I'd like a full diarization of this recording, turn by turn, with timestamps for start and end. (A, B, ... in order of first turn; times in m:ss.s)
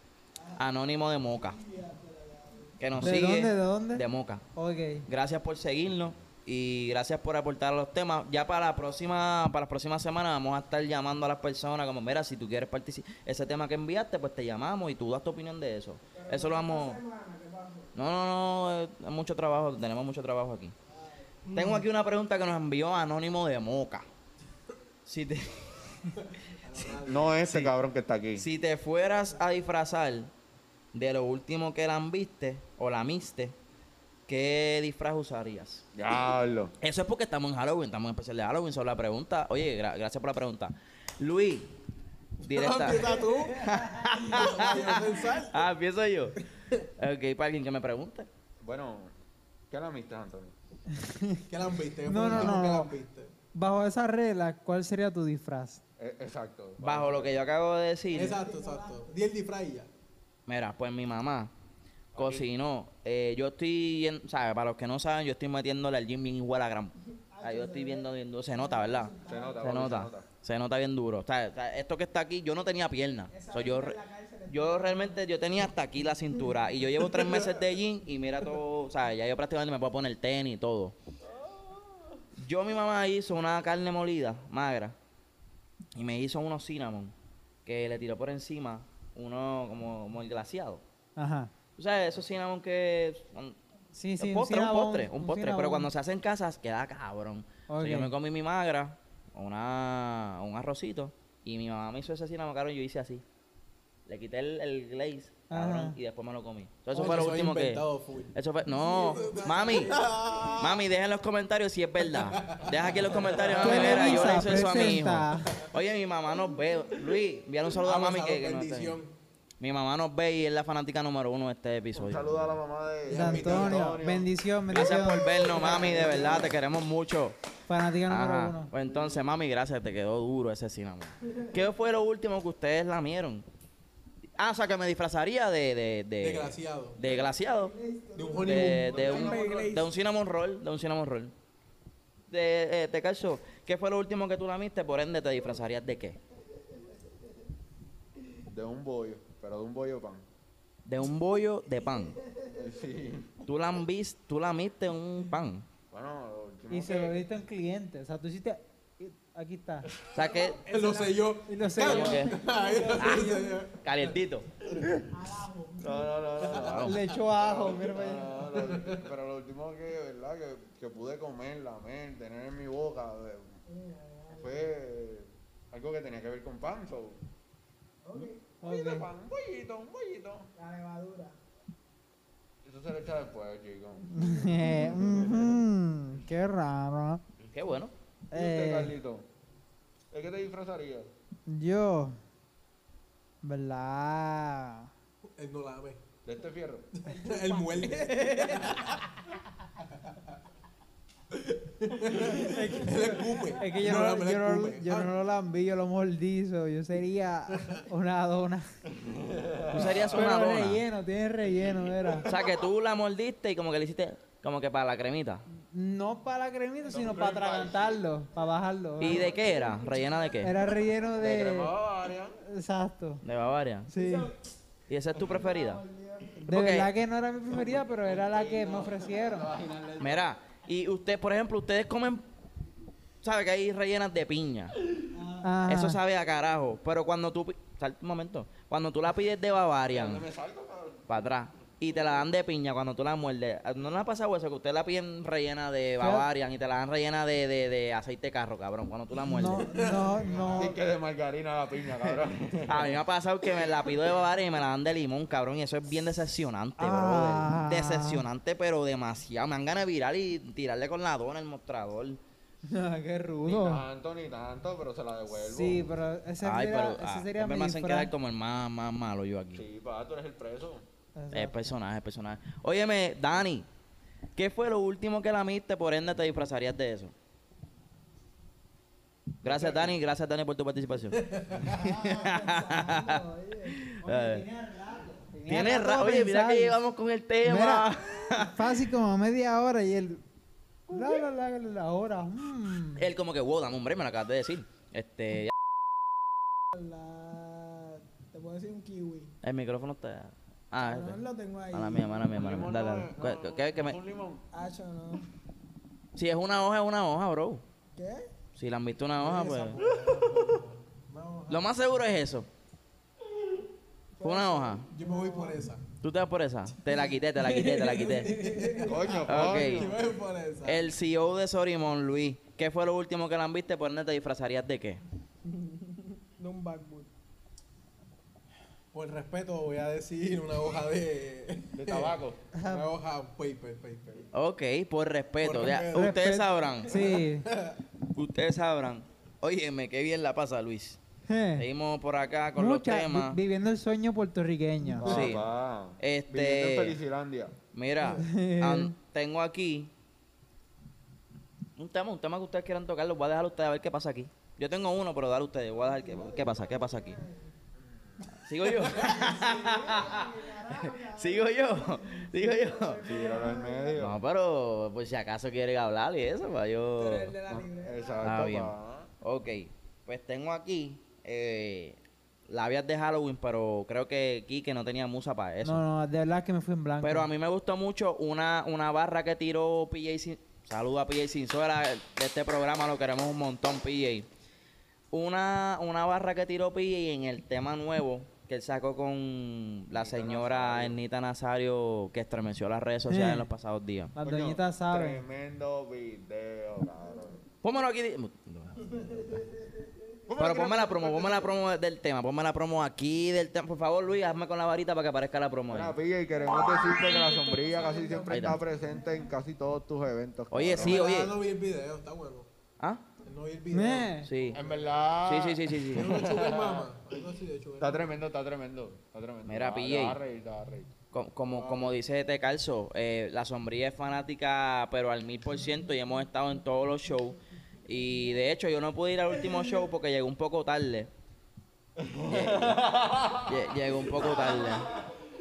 0:00.4-0:00.6 A
0:00.6-0:01.6 B
0:01.3-0:02.8 A
0:02.8-0:04.4 B
0:03.0-0:04.0 C
0:04.6-0:05.1 C
0:05.1-0:17.0 B
0:16.1-0:17.9 A
0:18.0-0:20.7 B
0:20.9-0:21.4 A
0:21.5-0:24.1 B
0:25.1-0:25.6 B
0:26.2-0:27.4 D
0:27.0-0:28.5 E
0:27.4-0:27.7 B
0:28.4-0:30.3 B
0:30.9-0:33.6 B
0:34.3-0:35.8 B
0:36.0-0:36.7 E
0:36.8-0:41.7 B
0:42.4-0:46.4 B
0:42.4-0:43.7 D
0:43.7-0:45.0 A
0:44.2-0:45.6 D
0:47.0-0:48.3 B
0:48.6-0:49.1 E
0:49.7-0:50.5 E
0:50.9-0:51.4 C
0:51.5-0:53.3 D
0:52.1-0:52.9 C
0:53.5-0:55.8 C
0:56.0-0:57.4 E
0:56.8-0:58.4 B
0:58.1-0:59.9 D
0:58.2-0:59.1 A
1:00.5-1:01.5 B
1:02.1-1:02.5 E
1:02.1-1:14.0 B
1:07.2-1:09.7 A
1:09.2-1:10.2 E
1:13.3-1:15.2 A
1:14.5-1:20.9 B
1:21.2-1:22.2 E
1:22.4-1:25.0 B
1:25.9-1:27.1 B
1:27.6-1:30.8 B
1:31.2-1:31.5 C
1:31.8-1:33.6 B
1:33.9-1:35.9 C
1:34.2-1:43.2 B
1:37.7-1:38.1 C
1:44.1-1:50.0 B
1:45.5-1:46.0 C
1:46.9-1:50.8 D
1:49.8-1:50.4 A
1:50.6-1:59.0 B
1:52.1-1:54.6 D
1:53.6-1:55.6 C
1:57.8-1:59.1 D
1:59.6-2:02.6 B
2:01.9-2:04.3 E
2:03.1-2:03.8 D
2:03.1-2:05.5 C
2:04.7-2:07.4 B
2:04.9-2:06.6 D
2:05.7-2:06.3 E
2:07.7-2:08.7 C
2:08.1-2:13.4 B
2:14.4-2:17.7 B
2:16.2-2:17.0 D
2:17.4-2:19.9 A
2:18.2-2:19.4 D
2:18.4-2:21.3 B
2:18.9-2:19.8 E
2:22.3-2:26.2 B
2:26.6-2:26.9 A
2:28.5-2:30.2 E
2:30.9-2:32.2 B
2:32.1-2:32.6 A
2:32.5-2:33.3 E
2:33.4-2:35.6 B
2:35.9-2:37.2 E
2:36.7-2:39.9 C
2:40.1-2:40.6 B
2:40.2-2:41.2 A
2:40.6-2:44.2 D
2:41.5-2:42.3 C
2:41.8-2:42.4 B
2:41.9-2:43.6 A
2:43.0-2:44.5 B
2:45.1-2:46.5 A
2:45.8-2:53.5 E
2:46.4-2:46.8 D
2:46.5-2:47.0 B
2:46.8-2:48.3 C
2:48.5-2:49.0 D
2:53.6-2:54.7 A
2:54.3-2:57.2 E
2:58.0-2:58.5 A
2:58.6-2:59.1 C
2:58.6-3:00.5 E
3:00.6-3:01.4 A
3:02.6-3:04.1 E
3:04.1-3:07.2 C
3:04.7-3:05.5 E
3:07.5-3:07.9 B
3:08.3-3:08.9 C
3:08.3-3:09.2 E
3:10.1-3:11.1 E
3:11.5-3:12.2 C
3:13.4-3:14.9 C
3:15.4-3:16.0 D
3:16.2-3:16.9 E
3:17.0-3:19.0 D
3:17.1-3:19.0 A
3:21.3-3:25.1 D
3:22.3-3:28.7 C
3:27.5-3:27.8 D
3:28.9-3:30.3 E
3:29.7-3:30.8 B
3:30.1-3:32.3 C
3:32.2-3:35.4 B
3:35.7-3:39.3 C
3:36.9-3:38.0 E
3:39.0-3:40.5 B
3:39.0-3:40.5 A
3:40.4-3:41.7 C
3:41.2-3:42.4 E
3:42.4-3:43.2 C
3:43.2-3:43.9 B
3:43.9-3:44.3 C
3:43.9-3:44.4 A
3:44.9-3:45.8 B
3:45.2-3:46.4 A
3:46.4-3:46.9 B
3:46.5-3:49.5 C
3:47.6-3:50.2 E
3:50.0-3:52.2 B
3:53.2-3:54.8 B
3:55.1-3:55.6 A
3:55.4-3:56.0 C
3:55.7-4:00.2 B
3:59.9-4:01.0 E
4:01.1-4:09.7 B
4:06.0-4:06.2 C
4:09.3-4:10.8 C
4:09.7-4:10.5 A
4:09.7-4:10.6 D
4:10.6-4:12.9 E
4:12.6-4:22.2 B
4:16.8-4:18.2 C
4:22.6-4:23.8 C
4:23.5-4:25.9 E
4:25.4-4:28.1 C
4:26.4-4:29.6 B
4:29.5-4:30.8 E
4:31.2-4:31.8 C
4:31.3-4:33.7 B
4:34.4-4:37.1 B
4:39.4-4:44.4 B
4:39.5-4:39.9 D
4:41.2-4:41.7 D
4:41.7-4:43.8 A
4:44.0-4:46.8 C
4:45.5-4:48.6 B
4:47.4-4:50.2 C
4:50.9-4:53.0 C
4:53.0-4:55.5 B
4:56.7-4:59.3 A
4:59.4-5:01.2 B
5:00.8-5:02.3 A
5:01.7-5:04.0 B
5:02.3-5:04.4 E
5:04.5-5:05.3 A
5:06.2-5:07.6 B
5:07.9-5:08.3 A
5:08.6-5:09.8 B
5:09.2-5:11.7 D
5:11.5-5:12.5 B
5:14.2-5:15.6 A
5:14.2-5:14.9 B
5:14.9-5:15.8 D
5:16.0-5:18.4 B
5:16.9-5:19.2 A
5:18.0-5:20.9 D
5:18.8-5:20.0 E
5:19.3-5:19.9 B
5:20.6-5:25.0 B
5:25.4-5:27.1 A
5:28.9-5:34.3 D
5:31.8-5:32.4 E
5:32.5-5:32.9 C
5:34.3-5:37.0 B
5:35.4-5:36.2 D
5:35.9-5:37.5 C
5:36.8-5:37.8 D
5:38.1-5:41.0 B
5:41.3-5:41.7 C
5:41.6-5:43.4 B
5:42.6-5:45.1 C
5:45.0-5:47.6 E
5:45.0-5:45.4 B
5:45.0-5:45.4 D
5:46.0-5:47.0 B
5:47.7-5:49.9 B
5:48.2-5:48.9 C
5:51.8-5:57.2 B
5:55.8-5:57.5 A
5:57.8-5:58.2 E
5:58.4-6:03.1 B
5:58.9-6:04.0 A
6:03.0-6:04.2 E
6:04.0-6:07.4 B
6:07.0-6:08.3 A
6:07.5-6:09.1 E
6:08.2-6:15.8 B
6:15.6-6:17.3 C
6:17.0-6:24.3 B
6:25.1-6:34.2 B
6:29.9-6:31.0 E
6:33.1-6:33.5 C
6:34.2-6:35.2 C
6:34.2-6:37.4 E
6:37.6-6:39.4 B
6:38.8-6:40.0 A
6:40.3-6:41.5 E
6:40.4-6:45.9 B
6:45.7-6:51.1 E
6:46.4-6:49.2 A
6:48.3-6:48.6 B
6:50.5-6:51.4 B
6:50.8-6:52.5 D
6:53.2-6:55.1 D
6:53.7-6:54.3 C
6:54.2-6:54.6 B
6:54.5-6:56.9 E
6:55.2-6:56.2 B
6:55.9-6:58.1 D
6:57.8-7:00.9 E
6:59.5-7:00.2 B
7:01.1-7:11.1 B
7:01.5-7:01.9 D
7:12.0-7:14.9 E
7:12.3-7:12.8 B
7:13.4-7:14.9 B